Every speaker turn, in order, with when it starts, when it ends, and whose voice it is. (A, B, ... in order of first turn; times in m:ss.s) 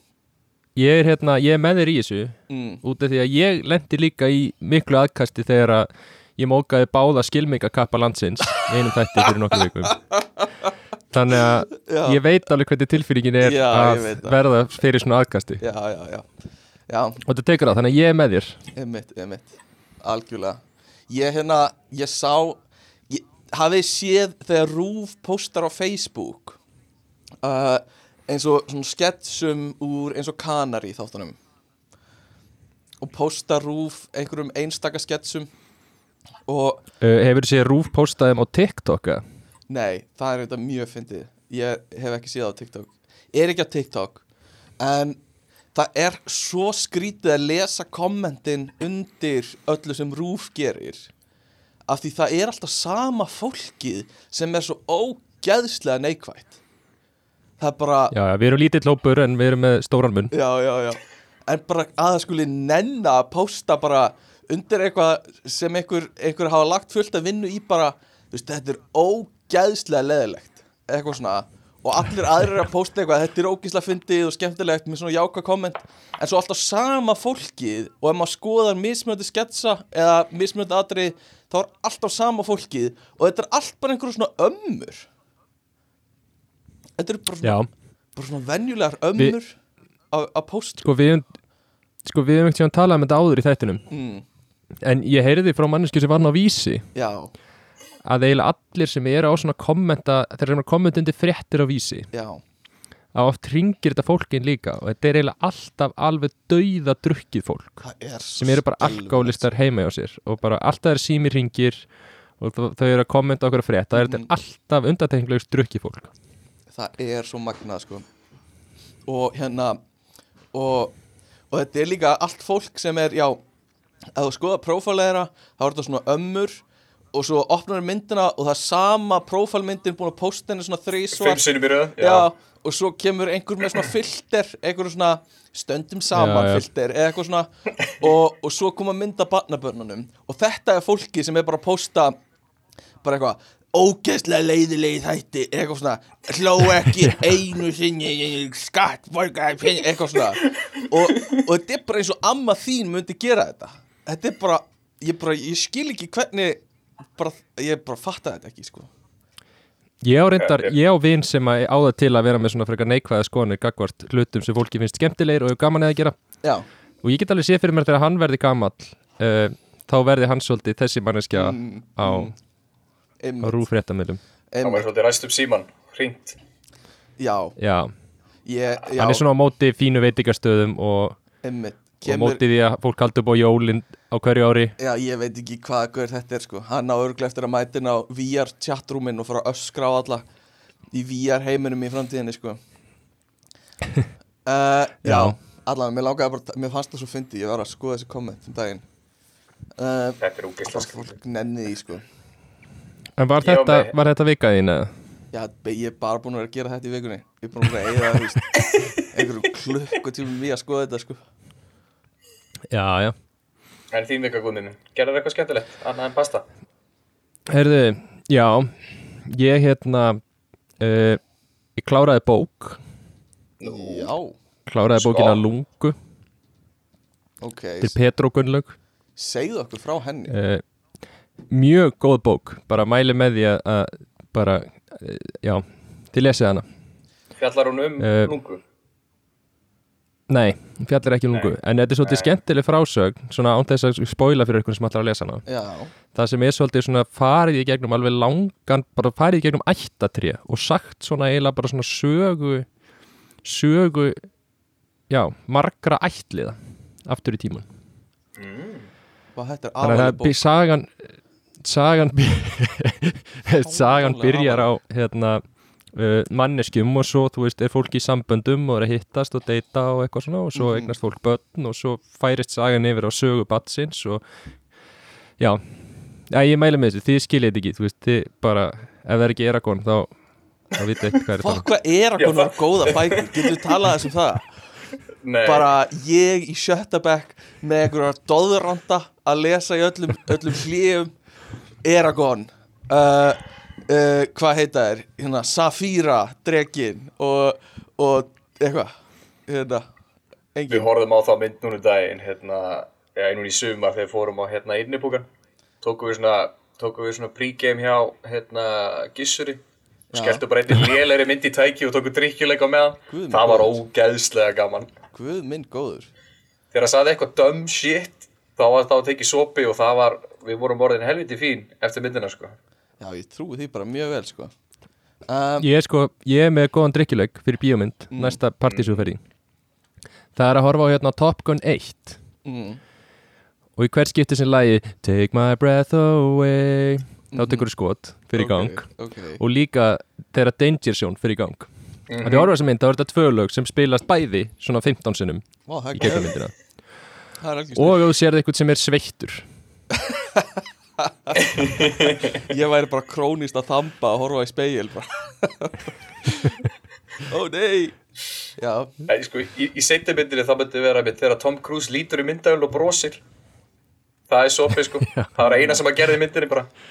0:00.8-0:10.0 A
0:02.5-0:02.8 B
0:09.9-0:10.7 B
0:11.1-0:15.6 A
0:11.8-0:12.2 B
0:13.4-0:14.4 B
0:15.6-0:16.3 B
0:16.9-0:17.2 B
0:17.2-0:18.6 A
0:18.7-0:26.6 B
0:27.4-0:31.4 B
0:33.0-0:35.5 B
0:36.5-0:36.8 B
0:37.0-0:39.2 A
0:39.7-0:44.2 B
0:44.8-0:45.2 B
0:45.7-0:51.1 B
0:51.9-0:56.6 B
0:57.6-0:58.1 B
0:58.1-1:00.3 A
1:00.3-1:25.1 B
1:27.0-1:29.6 B
1:27.4-1:27.7 A
1:30.1-1:30.9 B
1:30.8-1:31.3 A
1:32.0-1:33.8 A
1:33.9-1:34.2 B
1:34.8-1:36.9 A
1:36.9-1:37.3 B
1:38.0-1:42.1 A
1:42.1-1:42.4 B
1:43.1-1:47.8 A
1:47.8-1:49.5 B
1:48.4-1:51.9 A
1:52.4-1:56.1 A
1:53.9-1:54.3 B
1:56.7-1:58.0 B
1:59.1-1:59.8 B
2:00.5-2:01.0 B
2:01.5-2:03.4 B
2:04.2-2:11.4 B
2:11.2-2:12.3 C
2:12.0-2:22.2 B
2:16.1-2:16.6 A
2:23.0-2:36.6 B
2:37.1-2:38.9 B
2:40.0-2:46.2 A
2:40.4-2:40.7 C
2:47.0-2:52.3 A
2:51.3-2:52.3 B
2:53.2-2:53.7 B
2:53.4-2:54.2 A
2:54.5-2:54.8 B
2:54.6-2:56.4 C
2:57.2-2:57.6 B
2:57.6-2:57.9 A
2:58.4-2:59.2 B
2:59.0-3:01.2 A
3:01.4-3:02.4 B
3:02.0-3:04.7 A
3:04.8-3:10.2 B
3:10.9-3:12.6 B
3:14.4-3:18.9 B
3:15.0-3:15.4 A
3:19.8-3:22.0 B
3:20.2-3:21.1 C
3:23.2-3:24.9 A
3:23.4-3:23.9 C
3:25.3-3:31.2 B
3:32.7-3:33.1 A
3:33.9-3:36.4 C
3:37.5-3:40.2 A
3:40.8-3:41.2 A
3:41.8-3:42.8 A
3:43.6-3:44.1 C
3:43.6-3:44.3 B
3:44.7-3:46.0 A
3:44.9-3:45.4 C
3:47.4-3:48.0 B
3:47.8-3:48.8 A
3:49.2-3:50.3 B
3:50.3-3:50.6 A
3:51.5-3:56.6 A
3:57.4-3:58.6 C
3:58.0-3:58.3 A
4:00.3-4:05.4 A
4:01.3-4:02.3 C
4:05.4-4:05.9 B
4:06.1-4:12.7 A
4:13.4-4:14.3 A
4:15.1-4:17.7 A
4:18.4-4:18.9 C
4:19.3-4:20.4 B
4:19.8-4:34.2 A
4:23.6-4:24.7 B
4:30.5-4:30.9 B
4:35.4-4:41.6 A
4:41.4-4:44.5 B
4:42.2-4:43.3 C
4:45.2-4:45.7 C
4:45.4-4:51.1 B
4:51.8-4:58.9 B
4:59.5-4:59.8 B
5:00.5-5:00.9 B
5:00.7-5:05.3 C
5:05.8-5:09.6 C
5:10.1-5:10.4 B
5:10.1-5:14.9 C
5:13.1-5:13.8 B
5:15.1-5:16.1 B
5:16.7-5:22.6 C
5:23.0-5:24.5 B
5:25.3-5:25.7 B
5:25.6-5:29.2 A
5:28.1-5:28.4 B
5:28.7-5:29.1 C
5:30.4-5:32.2 A
5:32.4-5:32.8 B
5:33.8-5:46.6 A
5:37.3-5:37.7 B
5:38.3-5:39.4 B
5:42.1-5:42.5 C
5:45.7-5:46.4 B
5:47.4-5:48.0 B
5:47.7-5:49.5 A
5:51.0-5:51.4 B
5:51.4-5:52.4 C
5:52.4-5:56.6 B
5:57.2-5:58.0 B
5:58.6-5:59.0 B
5:59.1-6:03.2 C
6:04.3-6:06.7 C
6:05.0-6:05.3 A
6:05.4-6:05.8 B